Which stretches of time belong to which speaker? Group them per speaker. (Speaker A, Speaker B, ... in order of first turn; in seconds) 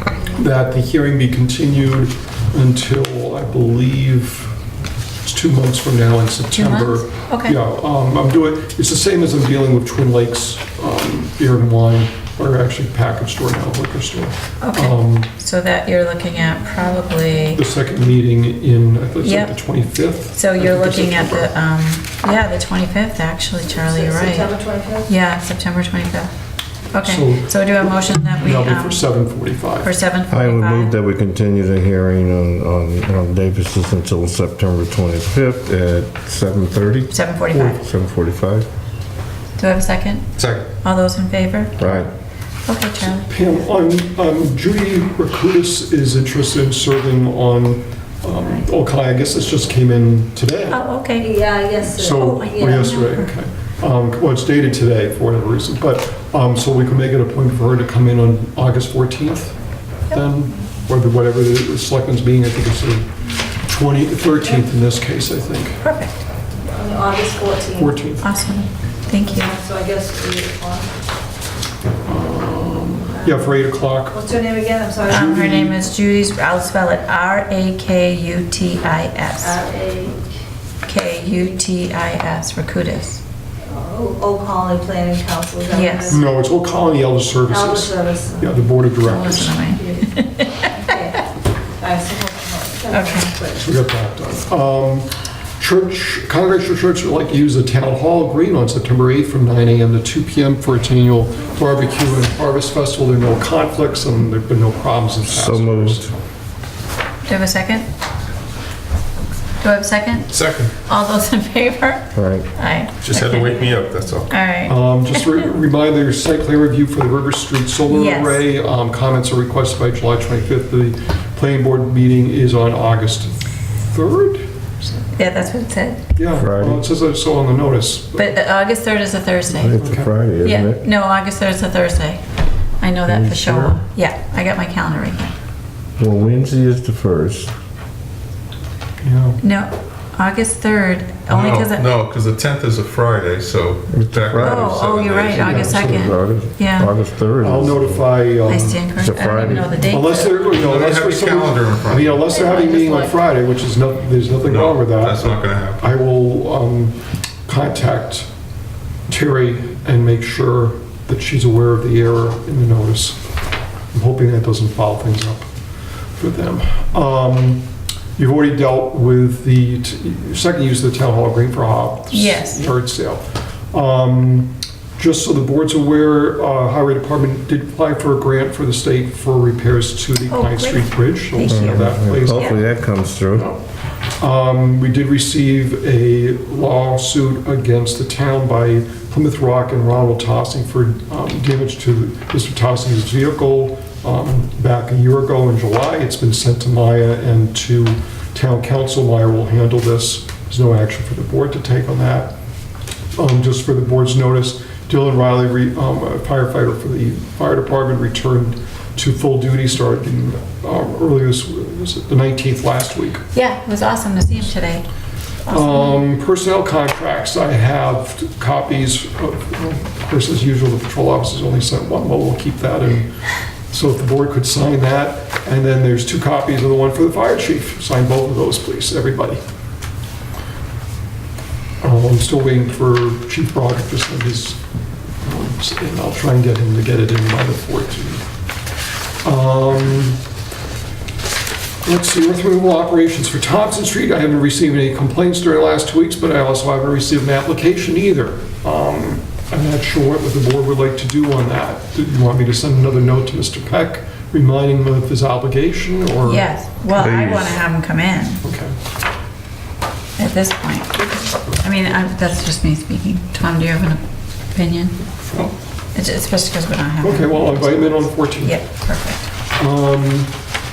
Speaker A: 0.3-4.5, 5.2-15.3, 17.5-21.5, 27.0-29.9, 43.3-50.8, 51.9-59.6, 60.1-63.1, 63.6-65.8, 67.8-68.3, 72.1-74.2, 75.1-75.8, 86.1-89.6, 93.6-106.0, 114.7-125.0, 126.2-128.3, 129.8-130.1, 139.0-139.4, 145.4-146.2, 147.4-148.8, 149.8-158.3, 159.1-163.2, 163.9-165.5, 166.2-167.7, 168.2-182.7, 183.3-183.6, 184.2-202.3, 203.2-213.2, 215.5-229.4, 231.8-234.6, 235.2-238.2, 239.2-240.2, 241.8-256.5, 258.4-258.8, 265.2-265.5, 267.0-268.7, 269.6-270.4
Speaker B: 6.5-7.6, 14.6-17.6, 19.2-19.6, 20.3-24.5, 25.1-26.3, 26.9-29.1, 29.8-30.9, 37.1-37.8, 39.6-41.9, 42.7-43.3, 50.7-51.3, 52.0-53.3, 65.8-66.2, 68.2-69.5, 75.1-79.6, 80.8-83.2, 85.7-86.2, 89.0-90.9, 92.9-93.3, 107.2-107.9, 109.6-115.3, 117.9-118.4, 125.2-126.0, 128.2-129.8, 130.4-132.2, 132.8-135.3, 139.4-141.9, 144.4-146.9, 148.5-150.6, 172.1-172.6, 180.3-182.6, 213.3-214.9, 215.5-216.0, 256.2-258.4, 260.2-261.1, 261.6-265.0, 265.9-269.3
Speaker C: 23.8-25.1, 51.2-52.8, 66.7-68.0, 69.3-71.0, 73.2-73.5, 74.1-75.2, 79.4-80.2, 83.7-86.2, 87.5-88.5, 89.7-91.2, 91.8-93.7, 152.3-153.1
Speaker D: 30.3-38.7, 41.8-42.1, 105.3-106.1, 112.2-112.5, 126.4-126.8, 129.5-130.8, 133.1-133.8, 136.0-137.5, 143.9-144.8, 145.5-148.1, 149.0-149.8, 181.4-183.5, 256.9-257.6
Speaker E: 40.4-40.7, 110.3-110.7, 113.0-114.4, 141.3-145.7, 150.5-152.2, 154.4-155.8